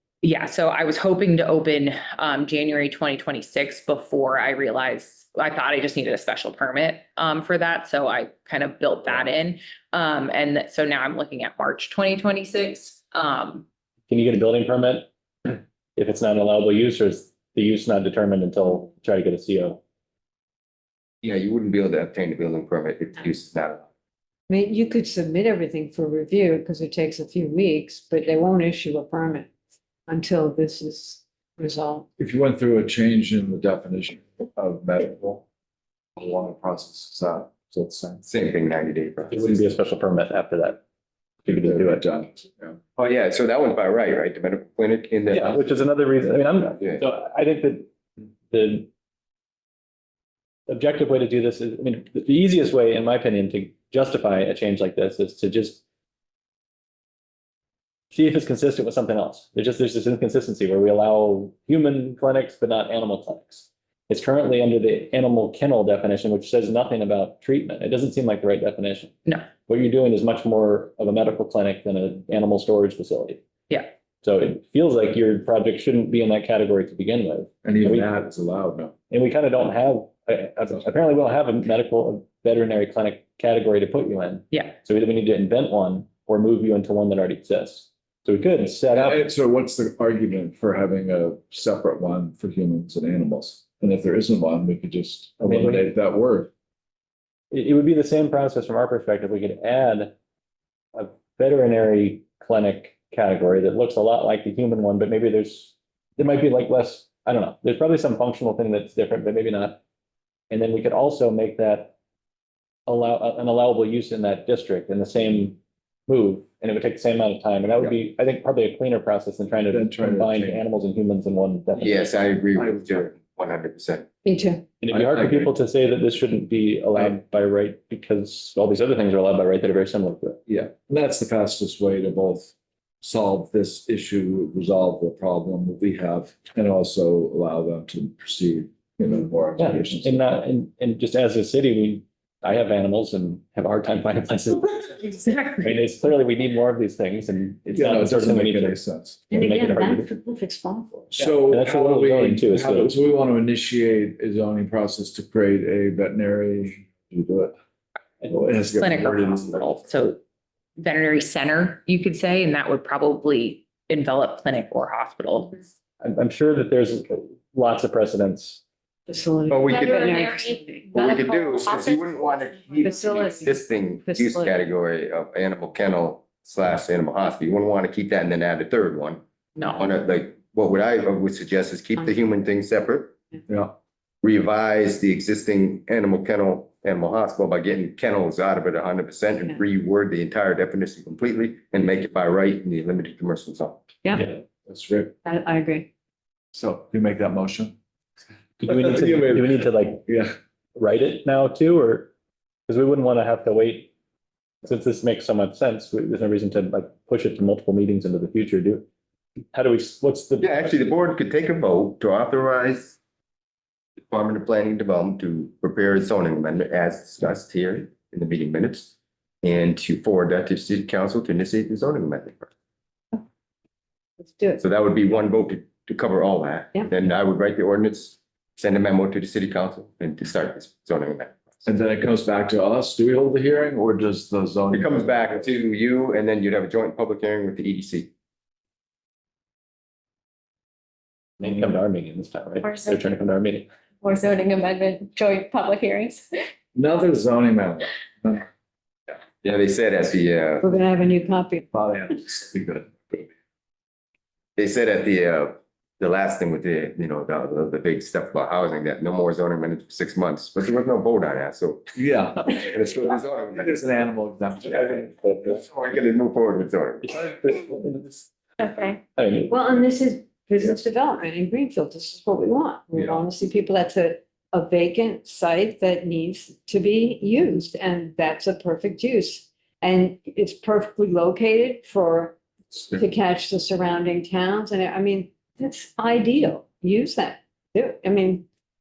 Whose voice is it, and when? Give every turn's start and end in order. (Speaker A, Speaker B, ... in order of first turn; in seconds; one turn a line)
Speaker A: 0.2-13.7
Speaker B: 14.1-19.8
Speaker C: 21.2-23.9
Speaker D: 24.5-29.5
Speaker D: 30.1-32.1
Speaker E: 32.2-35.4
Speaker E: 36.2-38.2
Speaker C: 38.2-39.6
Speaker B: 39.3-40.8
Speaker B: 41.5-42.1
Speaker E: 41.5-42.8
Speaker C: 43.0-45.6
Speaker B: 45.3-48.9
Speaker B: 50.7-55.8
Speaker B: 58.1-73.4
Speaker B: 74.2-78.1
Speaker E: 77.6-78.9
Speaker B: 79.1-89.2
Speaker E: 88.9-96.5
Speaker B: 95.4-95.9
Speaker B: 97.5-100.1
Speaker B: 100.9-109.8
Speaker B: 110.5-111.9
Speaker B: 112.9-122.0
Speaker E: 119.7-120.6
Speaker C: 121.8-124.1
Speaker E: 122.6-122.9
Speaker D: 124.2-124.7
Speaker B: 124.8-130.4
Speaker E: 124.9-125.5
Speaker E: 130.5-140.2
Speaker B: 139.6-144.9
Speaker A: 145.0-145.7
Speaker B: 145.6-148.8
Speaker E: 147.7-149.3
Speaker B: 149.3-150.1
Speaker D: 149.3-151.1
Speaker E: 151.1-157.6
Speaker B: 151.4-152.9
Speaker E: 158.2-159.6
Speaker A: 158.7-160.2
Speaker A: 160.8-165.6
Speaker B: 166.0-168.6
Speaker D: 169.1-171.2
Speaker C: 169.5-170.0
Speaker C: 170.9-183.2
Speaker F: 171.3-171.8
Speaker D: 172.8-174.6
Speaker A: 179.6-179.9
Speaker E: 183.5-183.8
Speaker C: 184.2-193.8
Speaker E: 194.7-195.1
Speaker D: 195.2-195.9
Speaker E: 196.5-197.8
Speaker B: 198.6-200.1
Speaker E: 198.7-200.3
Speaker B: 200.8-202.1
Speaker B: 202.7-203.9
Speaker B: 204.6-208.8
Speaker B: 209.5-211.0
Speaker C: 210.4-213.0
Speaker C: 214.0-222.5
Speaker D: 224.2-224.6
Speaker C: 224.6-231.4
Speaker E: 231.6-235.4
Speaker C: 234.7-238.1
Speaker B: 241.4-243.7
Speaker F: 242.6-243.0
Speaker F: 244.0-246.2
Speaker E: 246.8-248.5
Speaker C: 249.4-250.7
Speaker D: 250.6-251.7
Speaker E: 251.7-253.3
Speaker C: 254.6-261.9
Speaker E: 261.9-262.7
Speaker C: 262.5-263.9
Speaker E: 263.5-265.1
Speaker C: 264.8-267.1
Speaker B: 267.0-268.3
Speaker F: 268.6-269.0
Speaker B: 269.2-269.5
Speaker D: 269.5-282.4
Speaker E: 282.8-283.0
Speaker D: 282.9-288.4